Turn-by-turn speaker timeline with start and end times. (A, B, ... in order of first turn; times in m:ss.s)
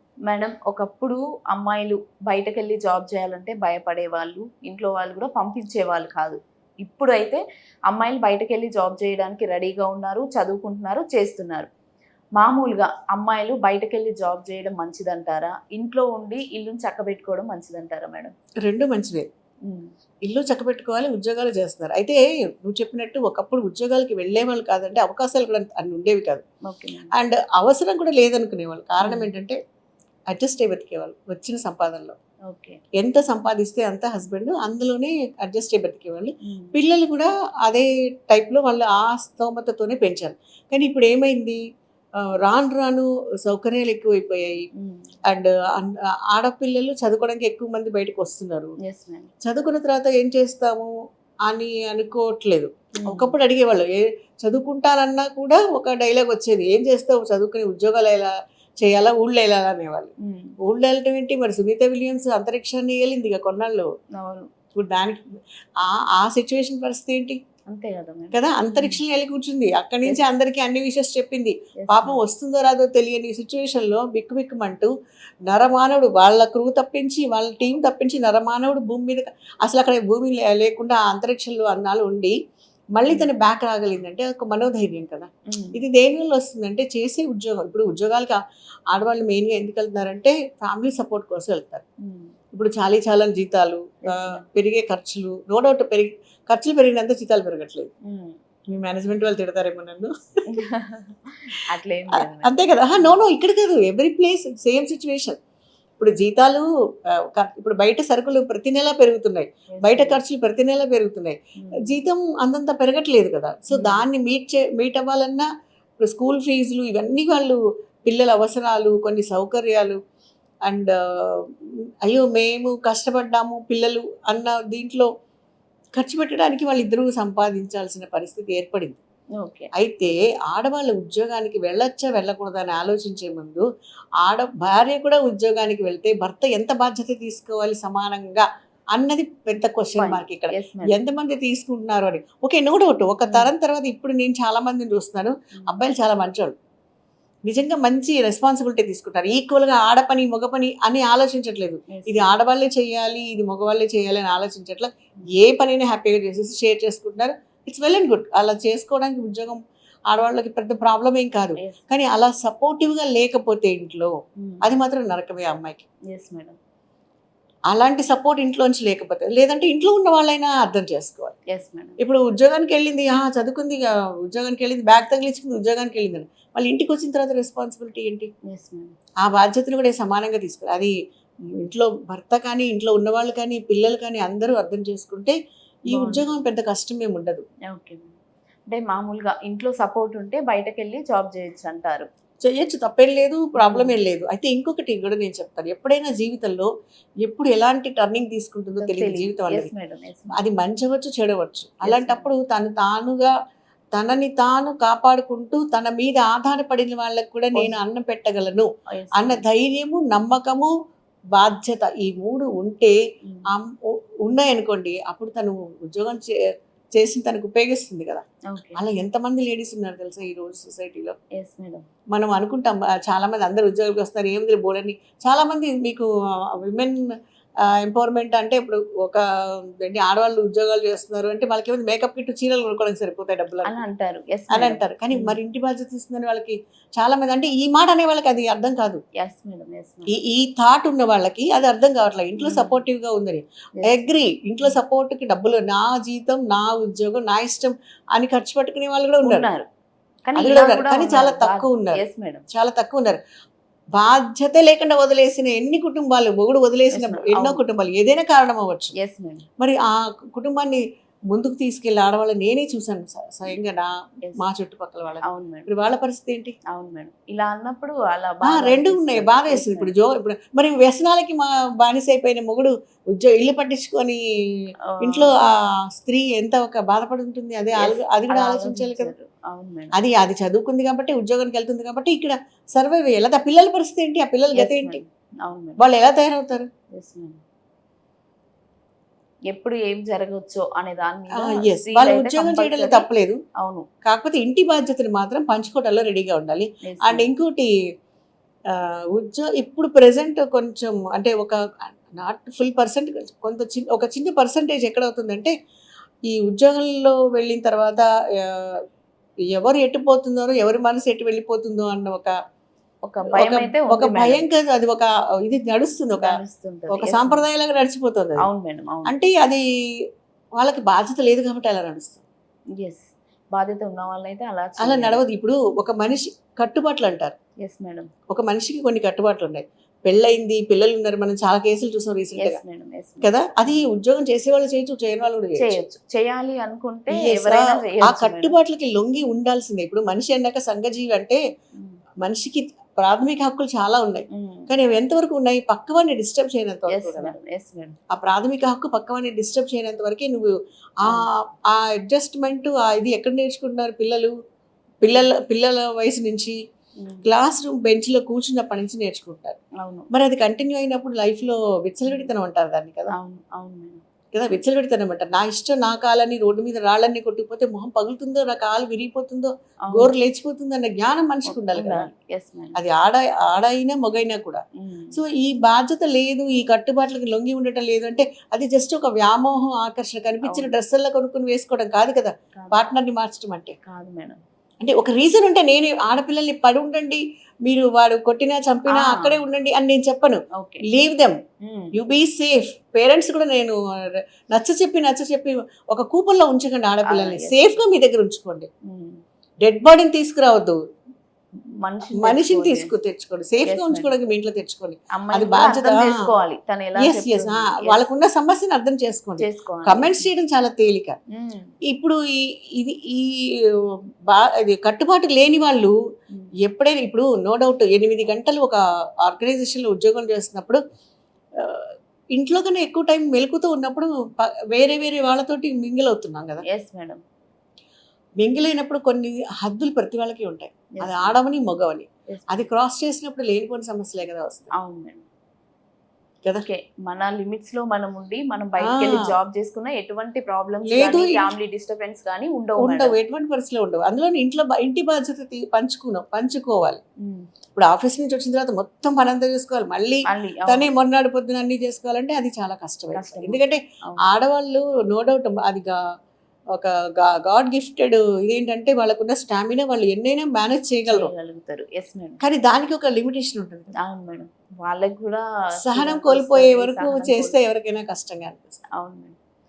0:00.3-0:11.7 A
0:12.4-0:18.3 A
0:18.6-0:19.3 B
0:19.7-0:19.9 A
0:20.2-0:26.4 B
0:26.6-0:27.1 A
0:27.1-0:29.6 B
0:29.0-0:29.3 A
0:30.3-0:32.2 B
0:32.5-0:32.8 A
0:33.0-0:41.6 B
0:36.4-0:36.8 A
0:42.3-0:44.6 B
0:44.8-0:45.2 A
0:45.3-0:48.8 B
0:48.8-0:49.3 A
0:49.4-0:50.9 B
0:51.5-1:00.1 B
0:53.0-0:53.3 A
1:00.2-1:00.5 A
1:00.6-1:03.9 B
1:04.2-1:04.5 A
1:04.8-1:05.2 B
1:05.8-1:07.4 B
1:07.7-1:09.0 A
1:08.3-1:14.9 B
1:11.8-1:12.2 A
1:15.5-1:22.3 B
1:23.0-1:28.4 B
1:25.5-1:25.8 A
1:28.9-1:31.8 B
1:32.0-1:32.4 A
1:32.5-1:37.9 B
1:34.0-1:34.4 A
1:38.1-1:38.4 A
1:38.7-1:40.1 B
1:40.5-1:43.2 A
1:42.1-1:45.4 B
1:46.0-1:55.5 B
1:49.7-1:50.2 A
1:51.6-1:52.0 A
1:53.7-1:54.1 A
1:56.0-2:00.0 B
2:00.7-2:05.1 B
2:06.0-2:09.0 B
2:09.4-2:09.7 A
2:09.8-2:13.7 B
2:14.2-2:26.6 B
2:20.0-2:21.0 A
2:23.3-2:23.5 A
2:25.6-2:25.8 A
2:27.5-2:45.9 B
2:31.9-2:32.4 A
2:41.6-2:41.8 A
2:44.4-2:44.7 A
2:46.1-2:46.6 A
2:47.7-2:51.4 B
2:51.5-2:52.0 A
2:52.0-2:58.3 B
2:58.5-2:59.0 A
2:59.2-3:00.9 B
3:01.6-3:05.4 B
3:05.9-3:06.3 A
3:05.9-3:07.4 B
3:07.7-3:08.2 A
3:08.7-3:12.1 A
3:12.4-3:16.7 B
3:13.6-3:14.0 A
3:17.2-3:19.7 B
3:18.8-3:20.4 A
3:20.3-3:23.3 B
3:21.8-3:22.3 A
3:23.9-3:30.7 B
3:28.9-3:29.4 A
3:31.4-3:33.0 B
3:33.5-3:36.3 B
3:37.0-3:41.2 B
3:38.5-3:38.8 A
3:41.4-3:41.9 A
3:42.1-3:46.1 B
3:46.6-3:47.0 B
3:47.8-3:49.2 B
3:49.8-3:53.8 B
3:53.6-3:55.4 A
3:54.5-3:59.0 B
3:59.2-4:00.1 A
4:00.1-4:09.5 B
4:02.4-4:02.8 A
4:03.8-4:04.8 A
4:09.2-4:09.7 A
4:10.3-4:12.5 A
4:10.4-4:13.2 B
4:14.0-4:18.9 B
4:16.9-4:17.6 A
4:19.0-4:19.5 A
4:19.6-4:26.6 B
4:25.2-4:25.7 A
4:26.7-4:29.9 A
4:28.4-4:34.2 B
4:34.9-4:35.3 A
4:35.0-4:39.1 B
4:37.7-4:39.9 A
4:40.0-4:45.0 B
4:44.6-4:45.8 A
4:45.8-4:46.7 B
4:46.9-4:47.4 A
4:49.5-4:53.1 A
4:51.4-4:53.4 B
4:53.6-4:53.9 A
4:54.0-4:57.7 B
4:56.8-4:57.3 A
4:58.7-5:05.5 B
5:06.3-5:08.8 B
5:09.5-5:12.3 B
5:13.1-5:14.5 A
5:13.3-5:16.4 B
5:16.2-5:17.4 A
5:16.9-5:18.4 B
5:18.4-5:19.1 A
5:19.1-5:19.6 B
5:20.6-5:22.2 B
5:22.8-5:25.2 A
5:24.8-5:27.4 B
5:27.6-5:28.1 A
5:28.3-5:32.6 B
5:32.4-5:33.9 A
5:33.2-5:35.7 B
5:35.6-5:38.6 A
5:37.2-5:41.4 B
5:42.2-5:47.3 B
5:44.3-5:44.7 A
5:46.9-5:48.0 A
5:48.1-5:54.3 B
5:55.0-5:56.6 B
5:57.2-5:59.6 B
5:59.8-6:00.1 A
6:00.1-6:03.1 B
6:02.1-6:02.3 A
6:03.1-6:04.0 A
6:04.3-6:12.1 B
6:09.9-6:10.1 A
6:11.5-6:12.8 A
6:12.8-6:14.6 B
6:14.8-6:15.2 A
6:15.1-6:23.8 B
6:20.4-6:20.7 A
6:22.6-6:22.9 A
6:23.8-6:24.4 A
6:24.8-6:31.4 B
6:28.9-6:29.4 A
6:30.6-6:31.1 A
6:31.6-6:31.9 A
6:32.0-6:33.8 B
6:34.5-6:38.7 B
6:37.1-6:37.8 A
6:38.9-6:39.2 A
6:39.6-6:40.8 B
6:41.8-6:42.9 A
6:42.2-6:46.2 B
6:43.6-6:44.1 A
6:45.1-6:48.0 A
6:47.0-6:51.2 B
6:49.4-6:50.3 A
6:51.3-6:51.7 A
6:51.9-6:56.0 B
6:56.6-7:00.8 B
7:01.6-7:06.6 B
7:06.7-7:07.2 A
7:08.4-7:14.7 B
7:10.9-7:11.4 A
7:12.3-7:12.7 A
7:14.8-7:15.2 A
7:16.5-7:23.2 A
7:18.8-7:19.2 B
7:20.9-7:21.5 B
7:22.8-7:27.0 B
7:27.8-7:36.0 B
7:30.3-7:30.9 A
7:33.1-7:34.3 A
7:36.8-7:41.3 B
7:41.1-7:42.4 A
7:42.4-7:43.9 B
7:44.0-7:47.6 A
7:45.8-7:48.8 B
7:49.0-7:49.4 A